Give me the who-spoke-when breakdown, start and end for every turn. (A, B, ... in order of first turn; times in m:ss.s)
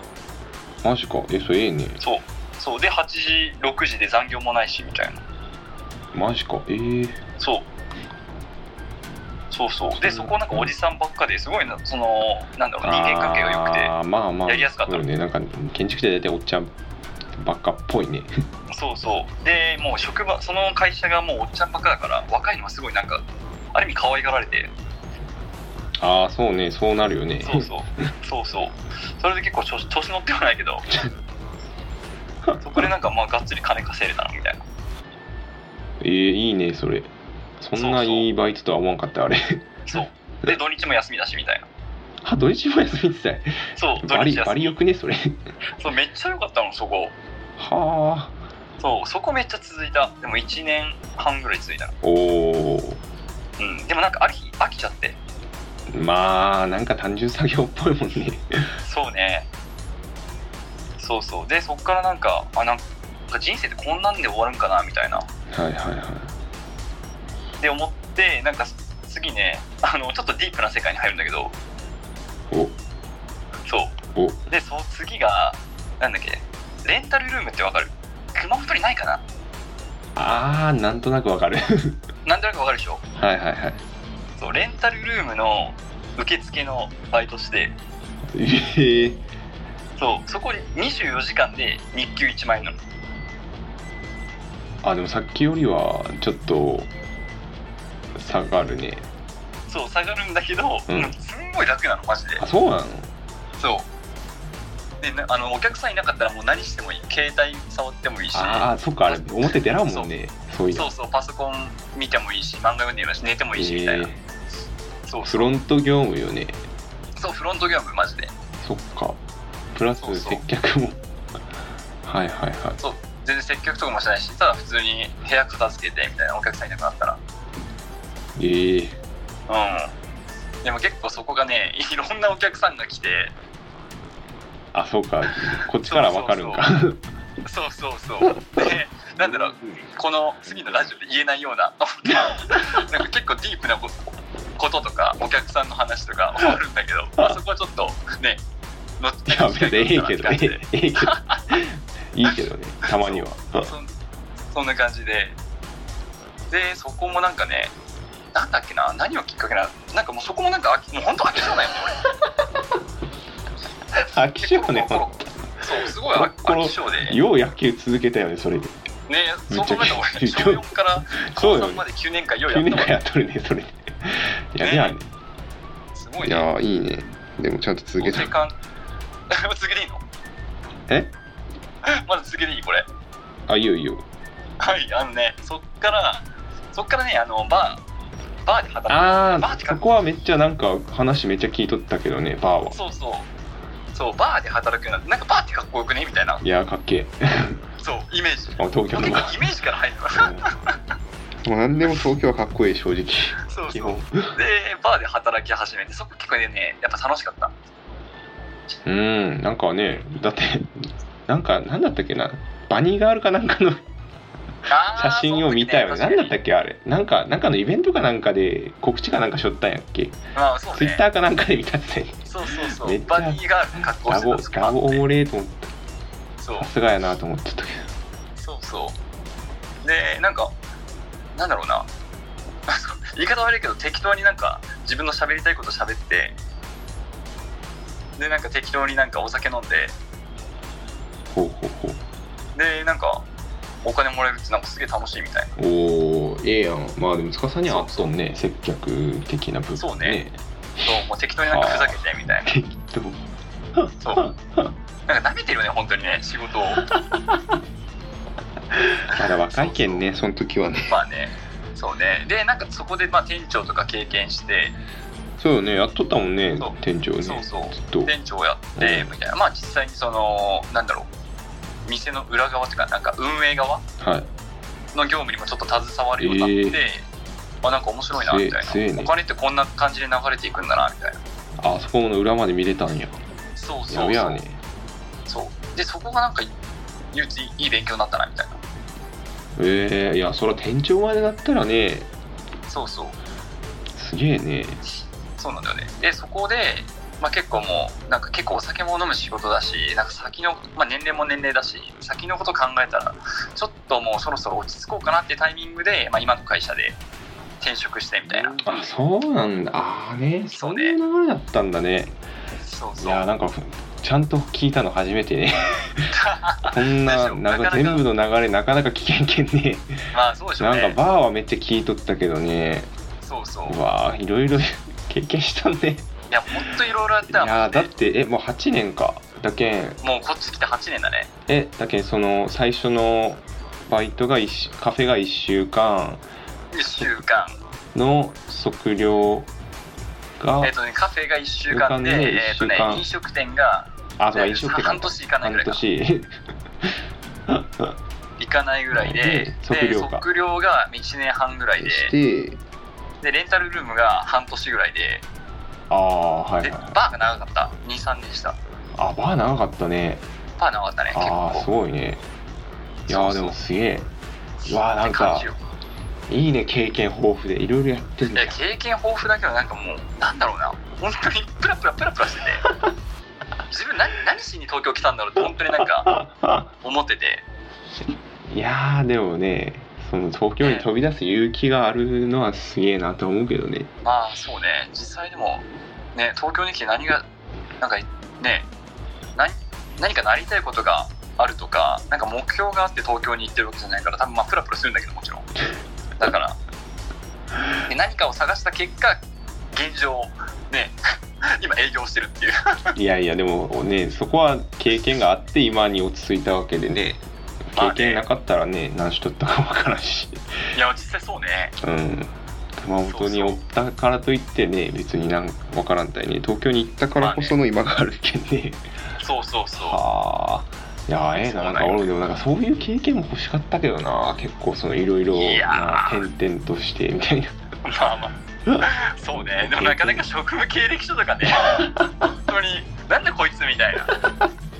0:00.8-0:02.0 A
0:02.0-0:05.2 B
0:06.1-0:07.2 A
0:07.4-0:07.6 B
0:09.5-0:13.9 B
0:09.9-0:10.7 A
0:12.8-0:16.7 A
0:14.4-0:15.0 B
0:17.4-0:18.3 A
0:18.7-0:24.7 B
0:26.0-0:27.7 A
0:27.4-0:30.9 B
0:32.4-0:32.9 A
0:32.6-0:34.6 B
0:36.0-0:40.5 A
0:37.8-0:38.3 B
0:39.8-0:41.7 B
0:42.2-0:45.4 A
0:43.8-0:44.8 B
0:45.8-0:47.1 B
0:47.6-0:48.4 A
0:48.8-0:51.9 B
0:52.0-0:53.0 A
0:53.6-0:55.2 B
0:55.9-0:58.7 A
0:58.8-0:59.5 B
1:01.0-1:05.2 B
1:05.5-1:06.3 A
1:07.6-1:11.5 B
1:13.6-1:14.0 B
1:14.1-1:14.4 A
1:14.5-1:19.2 B
1:20.2-1:22.0 A
1:22.2-1:23.0 B
1:23.2-1:23.8 A
1:24.4-1:27.8 B
1:28.3-1:29.2 A
1:30.0-1:32.8 B
1:34.8-1:36.9 A
1:38.1-1:39.0 A
1:39.7-1:42.4 B
1:40.9-1:41.1 A
1:42.4-1:43.1 A
1:43.6-1:43.9 B
1:45.0-1:50.1 B
1:48.3-1:50.9 A
1:50.7-1:54.1 B
1:53.5-1:54.2 A
1:55.0-1:55.5 B
1:55.2-1:56.6 A
1:57.2-1:58.3 B
1:58.6-1:59.2 A
1:59.7-2:01.0 A
2:00.0-2:00.4 B
2:02.0-2:02.8 A
2:02.8-2:07.2 B
2:08.4-2:09.0 A
2:09.5-2:09.9 B
2:10.6-2:13.3 B
2:14.7-2:17.0 A
2:15.8-2:16.6 B
2:17.4-2:24.0 B
2:24.6-2:28.4 B
2:29.0-2:31.4 B
2:29.3-2:33.7 A
2:32.9-2:33.9 B
2:34.5-2:35.4 B
2:36.5-2:37.7 B
2:38.3-2:42.0 B
2:44.0-2:45.1 A
2:44.3-2:47.2 B
2:46.0-2:48.7 A
2:49.1-2:53.0 B
2:49.5-2:51.8 A
2:52.4-2:55.1 A
2:54.6-2:54.9 B
2:55.9-2:56.5 B
2:56.2-2:58.3 A
2:58.0-2:58.5 B
2:59.3-3:00.0 B
3:01.8-3:02.9 B
3:03.5-3:04.0 A
3:04.6-3:07.8 B
3:08.4-3:09.8 B
3:08.9-3:12.8 A
3:12.7-3:13.3 B
3:13.9-3:16.4 B
3:16.4-3:17.6 A
3:17.8-3:20.6 B
3:18.6-3:19.5 A
3:20.1-3:20.5 A
3:21.4-3:24.4 A
3:23.5-3:27.5 B
3:28.8-3:33.8 A
3:34.7-3:36.3 B
3:34.9-3:40.2 A
3:40.3-3:41.0 B
3:40.7-3:45.7 A
3:42.2-3:45.0 B
3:46.4-3:46.7 B
3:46.6-3:47.9 A
3:48.4-3:49.0 B
3:49.8-3:50.5 B
3:51.3-3:51.9 B
3:52.7-3:56.4 B
3:58.2-4:00.0 B
4:01.3-4:02.0 A
4:02.5-4:03.2 B
4:03.8-4:05.5 B
4:05.6-4:10.9 A
4:07.7-4:08.1 B
4:09.8-4:10.2 B
4:10.8-4:12.6 B
4:11.4-4:13.2 A
4:13.8-4:14.7 A
4:14.0-4:14.3 B
4:15.1-4:16.9 B
4:16.9-4:17.5 A
4:18.8-4:21.0 A
4:19.1-4:20.0 B
4:20.9-4:24.8 B
4:25.4-4:28.1 A
4:26.6-4:31.1 B
4:28.8-4:29.2 A
4:31.8-4:33.8 B
4:34.0-4:34.3 A
4:34.9-4:37.1 B
4:36.2-4:36.8 A
4:37.6-4:41.2 B
4:38.1-4:39.1 A
4:41.6-4:43.2 A
4:43.6-4:44.4 B
4:43.9-4:44.6 A
4:45.3-4:46.5 B
4:47.1-4:48.6 B
4:49.6-4:52.1 A
4:52.7-4:53.2 B
4:53.9-4:54.8 A
4:55.0-5:07.0 B
5:07.6-5:08.6 B
5:08.6-5:12.2 A
5:10.5-5:11.0 B
5:12.6-5:13.2 B
5:13.0-5:20.0 A
5:16.1-5:18.1 B
5:20.1-5:21.0 B
5:20.6-5:22.9 A
5:23.2-5:23.8 B
5:23.6-5:26.1 A
5:26.3-5:27.9 B
5:27.3-5:30.0 A
5:30.0-5:31.3 B
5:31.5-5:36.2 A
5:36.7-5:37.6 B
5:37.9-5:39.5 A
5:40.4-5:40.8 A
5:40.6-5:45.8 B
5:41.7-5:43.0 A
5:44.2-5:46.3 A
5:47.5-5:47.9 A
5:48.4-5:52.1 B
5:48.9-5:50.2 A
5:51.8-5:52.6 A
5:53.2-5:55.2 B
5:55.9-5:57.0 A
5:56.6-5:58.6 B
5:59.0-6:00.2 A
6:00.6-6:01.7 B
6:01.1-6:02.2 A
6:03.1-6:03.6 B
6:03.1-6:04.1 A
6:04.6-6:05.6 B
6:04.6-6:05.5 A
6:06.3-6:08.6 A
6:08.3-6:12.6 B
6:13.7-6:16.2 B
6:16.0-6:16.6 A
6:16.8-6:17.4 B
6:18.5-6:23.9 A
6:20.6-6:20.9 B
6:24.0-6:27.2 B
6:27.8-6:28.7 B
6:29.3-6:35.5 B
6:36.2-6:36.6 B
6:37.8-6:39.2 B
6:39.7-6:42.8 B
6:42.9-6:50.4 A
6:47.8-6:48.2 B
6:50.7-6:51.7 B
6:51.8-6:58.8 A
6:53.1-6:53.6 B
6:57.2-6:57.6 B
6:59.2-7:00.0 B
6:59.8-7:07.6 A
7:01.4-7:02.1 B
7:05.3-7:06.3 B
7:07.8-7:11.9 B
7:08.7-7:10.2 A
7:11.6-7:12.3 A
7:12.4-7:14.1 B